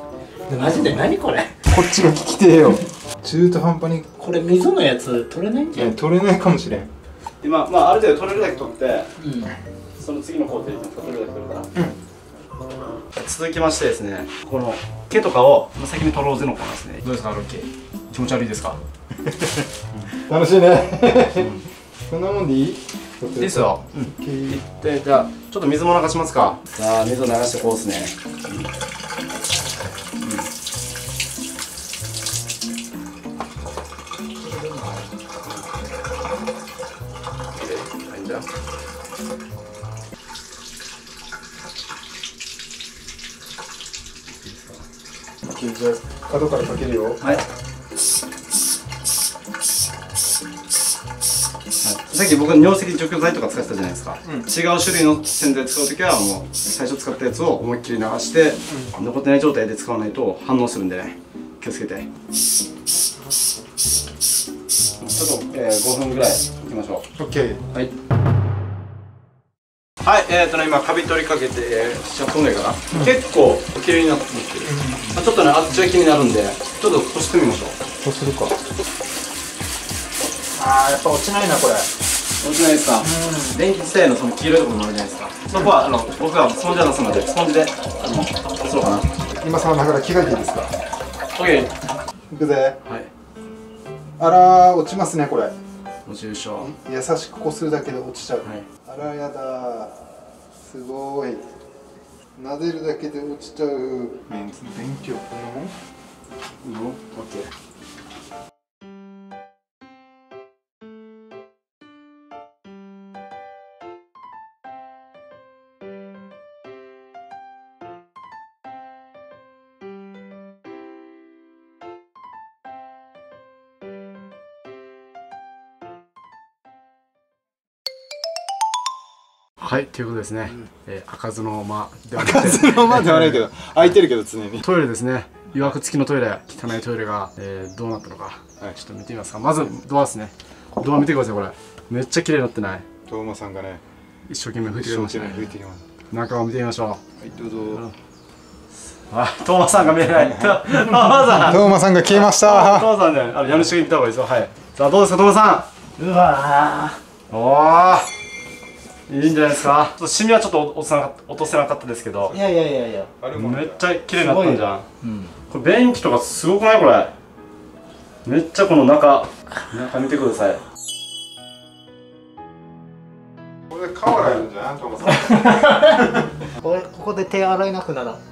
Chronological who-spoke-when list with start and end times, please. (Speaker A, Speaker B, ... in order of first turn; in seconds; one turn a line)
Speaker A: 0.5-1.5
Speaker B: 1.7-4.2
Speaker A: 4.2-6.0
Speaker B: 5.7-6.9
Speaker C: 7.4-9.1
Speaker A: 9.2-9.5
Speaker C: 10.0-11.7
Speaker C: 13.1-18.8
Speaker B: 19.3-24.6
Speaker C: 23.4-28.7
Speaker C: 30.2-30.5
Speaker A: 34.4-35.1
Speaker C: 37.5-38.5
Speaker C: 44.4-44.8
Speaker B: 45.4-47.2
Speaker C: 51.8-62.1
Speaker B: 54.2-54.5
Speaker B: 58.7-59.0
Speaker C: 65.0-67.0
Speaker B: 67.2-67.6
Speaker C: 70.0-77.8
Speaker B: 74.7-75.2
Speaker B: 78.0-78.6
Speaker B: 80.6-81.9
Speaker C: 82.4-89.1
Speaker B: 83.0-83.6
Speaker B: 85.5-85.8
Speaker B: 89.3-90.7
Speaker C: 91.4-91.7
Speaker B: 92.3-92.8
Speaker B: 94.2-95.5
Speaker C: 96.1-96.7
Speaker B: 96.6-100.0
Speaker B: 100.6-101.4
Speaker B: 102.4-105.7
Speaker C: 106.6-107.5
Speaker C: 129.6-134.0
Speaker B: 132.2-134.7
Speaker C: 134.6-142.9
Speaker B: 143.1-143.8
Speaker C: 144.3-145.5
Speaker B: 144.6-145.8
Speaker C: 146.1-147.0
Speaker B: 147.2-147.8
Speaker C: 147.7-147.9
Speaker C: 149.1-155.7
Speaker B: 150.0-152.9
Speaker A: 156.0-157.0
Speaker C: 157.3-158.1
Speaker C: 159.1-162.4
Speaker A: 162.3-163.1
Speaker B: 163.2-163.9
Speaker C: 163.3-164.8
Speaker A: 164.1-165.3
Speaker C: 165.5-167.1
Speaker C: 168.2-170.6
Speaker B: 173.7-176.3
Speaker A: 175.2-178.2